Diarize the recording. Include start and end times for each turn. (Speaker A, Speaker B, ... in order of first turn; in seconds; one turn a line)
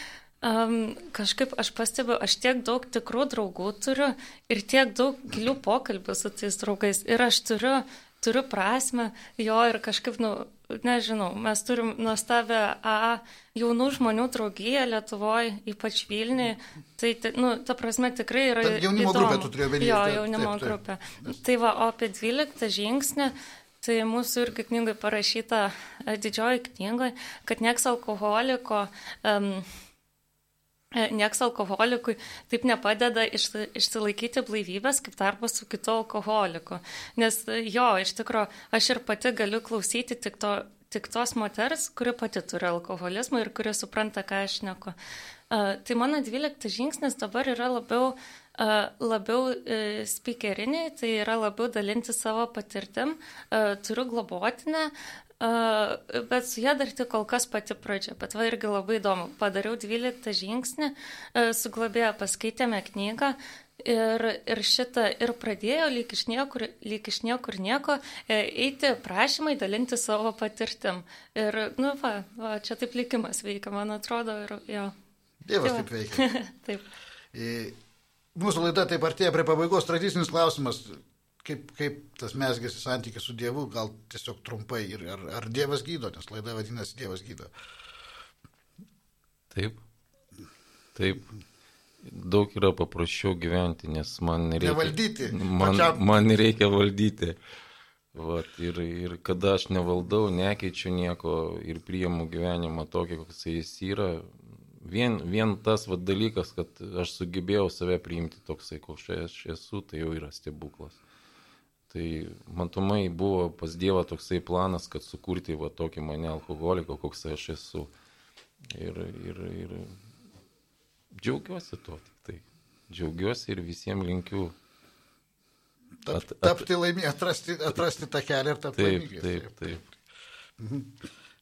Speaker A: 0.4-29.7
Speaker B: 18.6-21.4
Speaker A: 30.9-45.0
Speaker A: 45.5-75.0
Speaker B: 75.5-76.2
Speaker A: 75.6-76.8
Speaker B: 77.3-77.8
Speaker B: 78.3-87.5
Speaker C: 89.5-89.8
Speaker C: 91.0-91.3
Speaker C: 92.0-97.4
Speaker B: 94.6-96.0
Speaker C: 98.1-111.0
Speaker C: 111.9-117.9
Speaker C: 118.7-120.0
Speaker C: 121.1-124.5
Speaker B: 126.0-129.6
Speaker C: 126.1-126.7
Speaker C: 128.8-129.9
Speaker B: 130.6-131.0